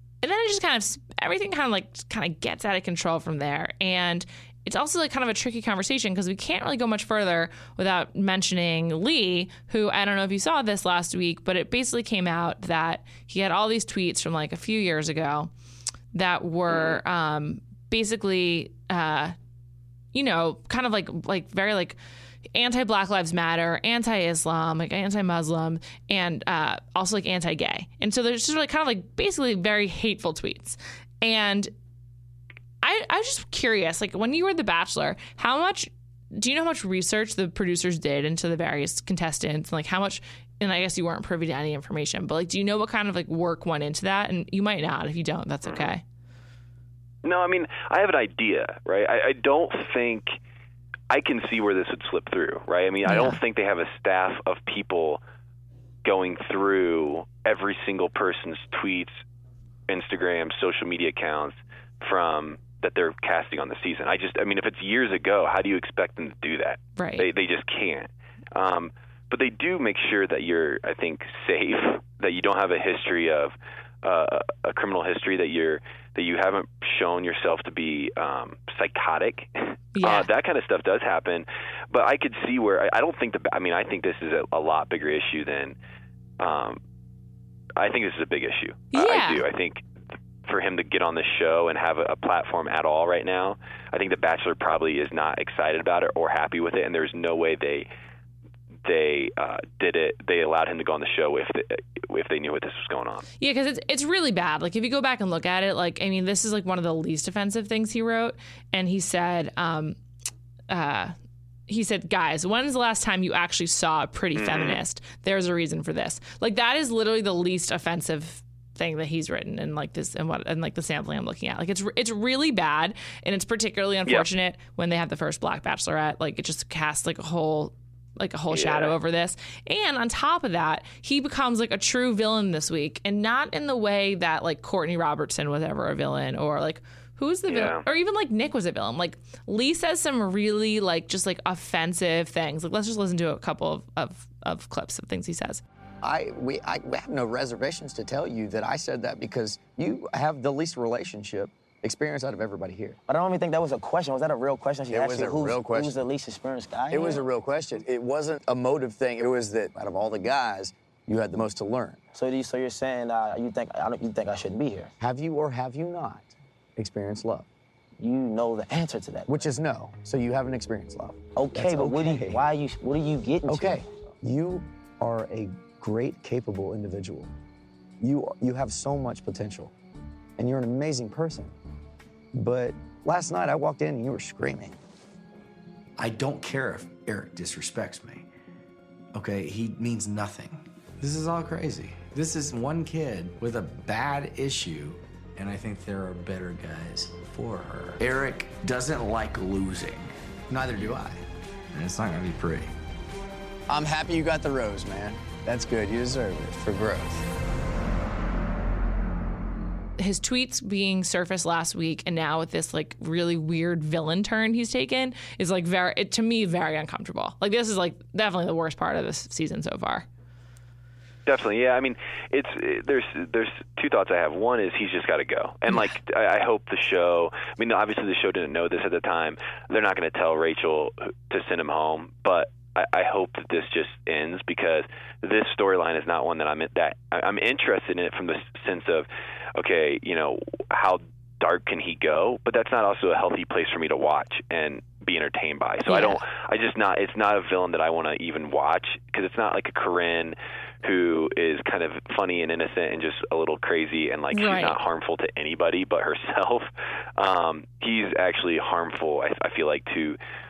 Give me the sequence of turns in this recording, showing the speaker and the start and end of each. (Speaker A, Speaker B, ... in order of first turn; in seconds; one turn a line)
Speaker A: 0.2-15.5
Speaker A: 16.1-19.3
Speaker B: 16.7-17.0
Speaker A: 20.1-22.0
Speaker A: 22.5-31.7
Speaker A: 32.8-46.0
Speaker B: 45.6-45.9
Speaker B: 47.2-50.3
Speaker B: 51.1-55.2
Speaker A: 53.0-53.4
Speaker B: 56.0-59.2
Speaker B: 59.9-85.8
Speaker A: 67.0-67.3
Speaker A: 79.9-80.3
Speaker B: 86.4-86.8
Speaker B: 87.8-89.8
Speaker A: 88.9-89.4
Speaker B: 90.4-97.9
Speaker B: 98.8-103.3
Speaker A: 103.4-110.0
Speaker A: 110.7-111.1
Speaker A: 111.7-145.6
Speaker B: 114.3-114.8
Speaker B: 128.5-128.9
Speaker B: 137.5-137.8
Speaker C: 146.0-153.0
Speaker D: 153.1-157.2
Speaker C: 154.9-155.9
Speaker C: 156.9-162.0
Speaker D: 162.1-164.9
Speaker C: 165.0-167.5
Speaker D: 168.0-169.4
Speaker C: 169.3-172.4
Speaker D: 171.3-173.8
Speaker C: 173.4-177.3
Speaker C: 178.0-179.7
Speaker C: 180.4-181.5
Speaker C: 182.3-184.8
Speaker E: 186.0-188.2
Speaker E: 189.1-202.7
Speaker C: 203.7-207.2
Speaker A: 210.0-220.1
Speaker B: 221.2-260.2
Speaker A: 245.8-246.2
Speaker A: 254.3-254.8